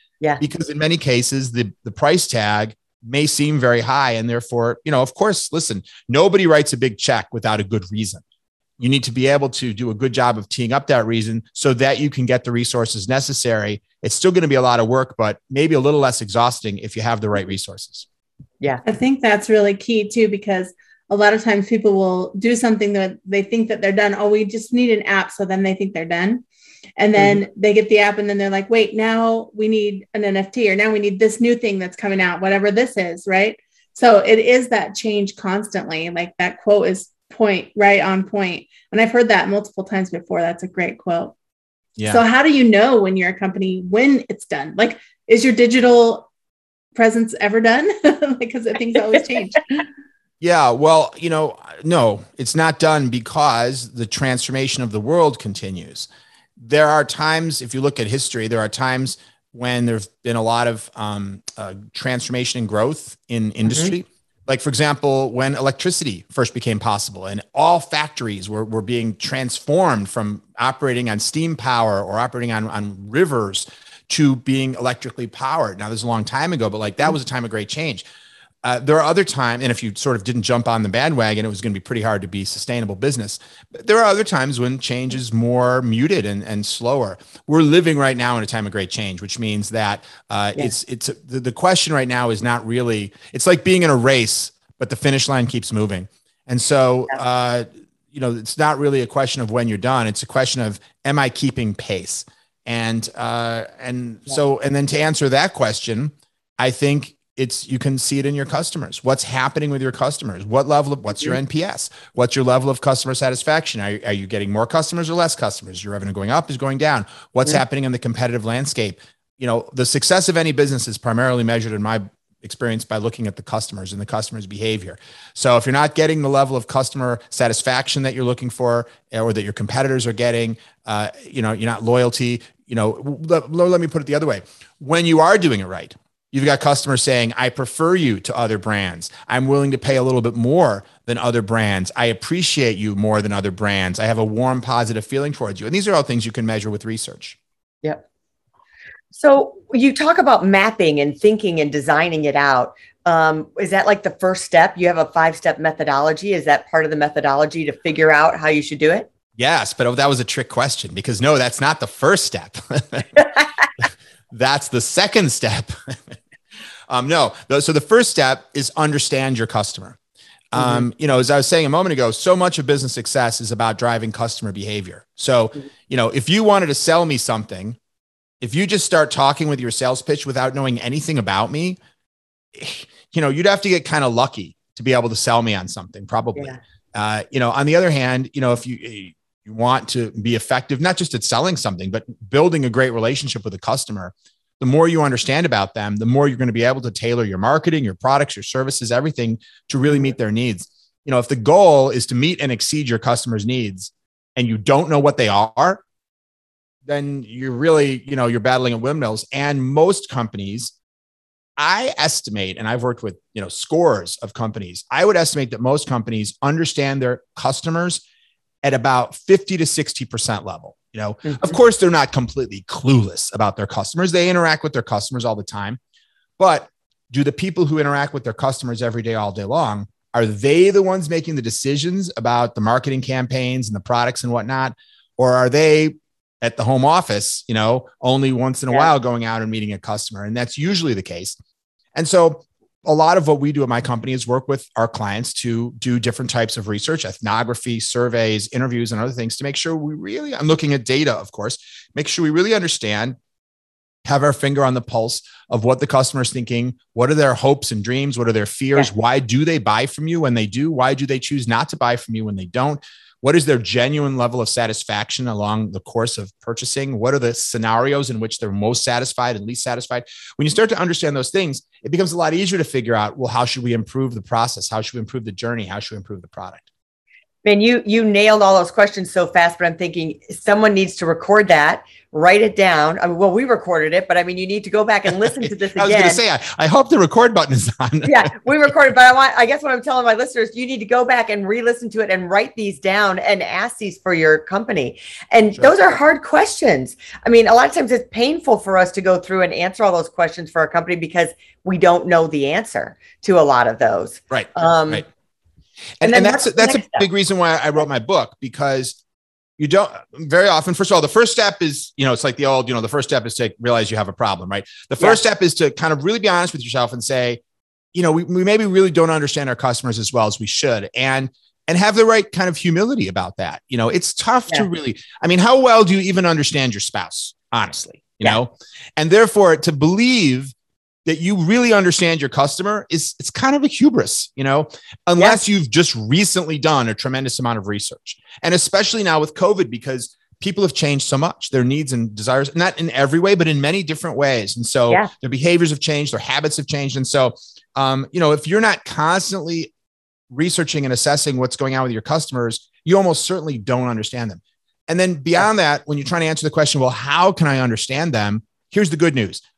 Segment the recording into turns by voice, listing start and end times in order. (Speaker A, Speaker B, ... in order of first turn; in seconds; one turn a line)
Speaker A: 0.4-8.2
Speaker A: 8.8-18.1
Speaker B: 18.9-26.4
Speaker B: 27.0-41.4
Speaker A: 42.0-42.2
Speaker B: 42.0-46.3
Speaker B: 47.0-49.7
Speaker A: 50.4-78.0
Speaker C: 63.6-64.0
Speaker A: 78.6-147.4
Speaker C: 149.1-159.1
Speaker A: 159.4-163.2
Speaker A: 164.3-166.2
Speaker A: 166.9-170.0
Speaker A: 170.5-177.8
Speaker C: 170.6-170.8
Speaker A: 178.4-181.8
Speaker A: 182.5-205.8
Speaker C: 186.4-186.6
Speaker A: 206.9-210.7
Speaker A: 211.6-218.0
Speaker A: 218.6-225.8
Speaker C: 221.2-221.6
Speaker A: 226.4-241.4
Speaker A: 241.9-253.2
Speaker A: 254.1-276.6
Speaker C: 277.4-286.2
Speaker A: 285.2-288.3
Speaker C: 288.1-305.0
Speaker A: 304.3-305.1
Speaker A: 306.0-309.0
Speaker C: 306.0-307.1
Speaker A: 309.6-317.4
Speaker A: 317.9-330.5
Speaker A: 331.1-349.7
Speaker A: 350.3-359.4